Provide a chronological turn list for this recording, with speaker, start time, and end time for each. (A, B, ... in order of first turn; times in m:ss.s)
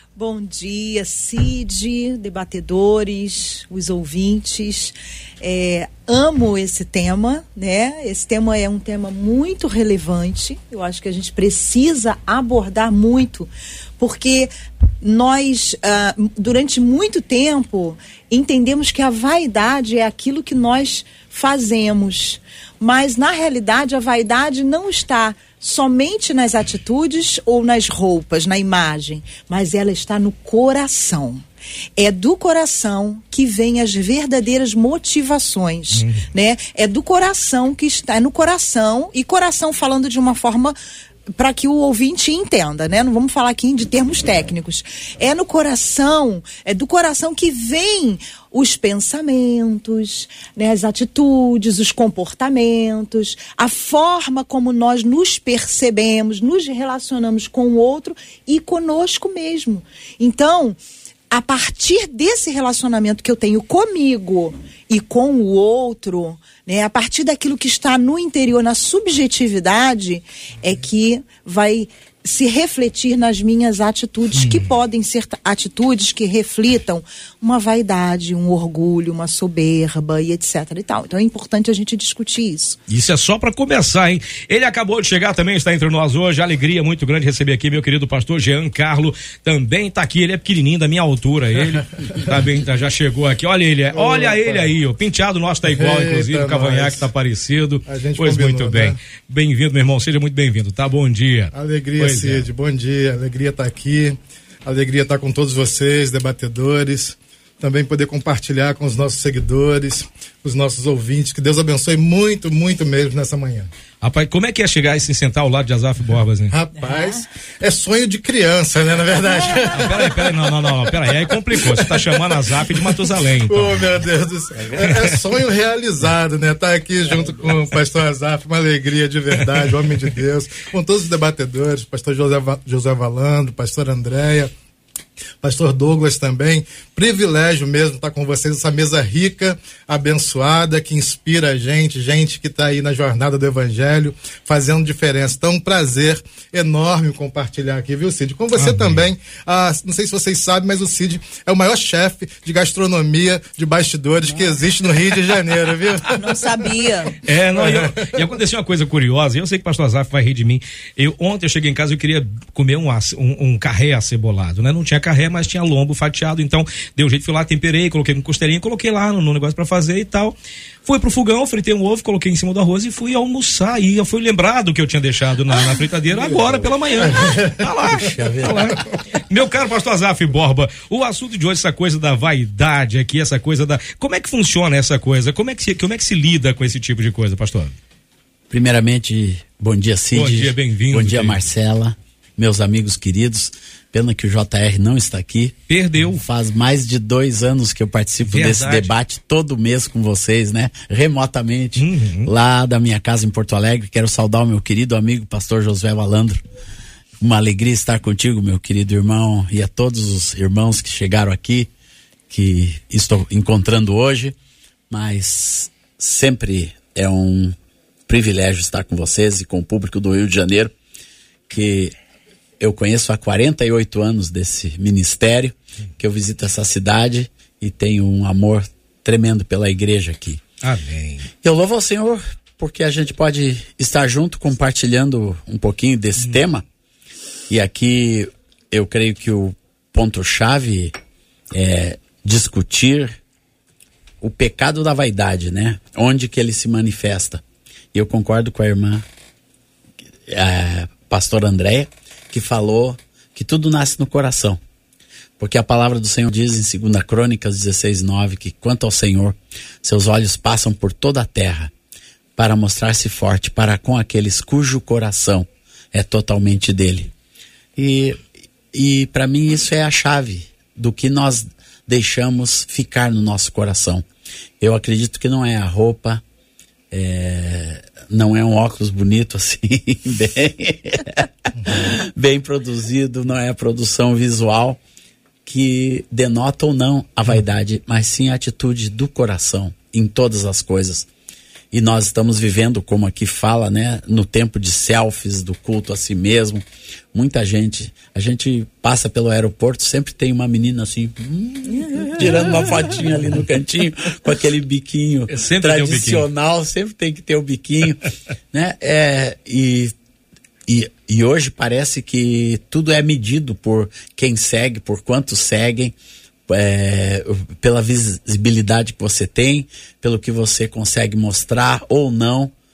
0:00.2-0:31.4 A
0:32.0-0:40.8 A
0:36.0-0:36.2 B
0:41.4-1:00.8 A
1:01.3-1:22.8 A
1:22.9-1:42.4 B
1:33.9-1:34.8 C
1:35.7-1:37.1 C
1:37.9-1:39.0 C
1:41.5-1:53.7 C
1:54.0-1:56.5 B
1:56.5-2:14.5 C
1:59.6-2:03.9 B
2:04.7-2:05.2 B
2:09.4-2:09.7 B
2:15.4-2:36.6 C
2:28.6-2:29.0 B
2:36.1-2:37.1 A
2:37.2-3:07.8 B
2:37.5-2:38.3 C
2:57.1-2:57.6 C
2:58.0-2:58.8 D
3:08.5-3:26.4 D
3:10.1-3:11.5 B
3:15.7-3:16.2 B
3:18.3-3:18.9 B
3:21.8-3:22.3 B
3:27.2-3:31.7 D
3:32.3-3:34.4 D
3:34.9-3:37.5 D
3:38.1-3:40.7 D
3:41.5-3:41.9 D
3:42.6-3:50.4 D
3:50.6-3:51.3 B
3:51.4-3:56.6 D
3:57.5-4:01.0 D
4:01.5-4:03.2 D
4:04.2-4:07.4 D
4:07.9-4:09.0 D
4:10.3-4:14.6 D
4:15.4-4:21.7 D
4:22.4-4:27.1 D
4:27.8-4:34.0 D
4:34.6-4:36.2 D
4:36.9-4:44.8 D
4:45.4-4:51.1 D
4:51.7-5:09.9 D
5:05.3-5:06.2 B
5:10.7-5:15.9 D
5:16.5-5:22.5 D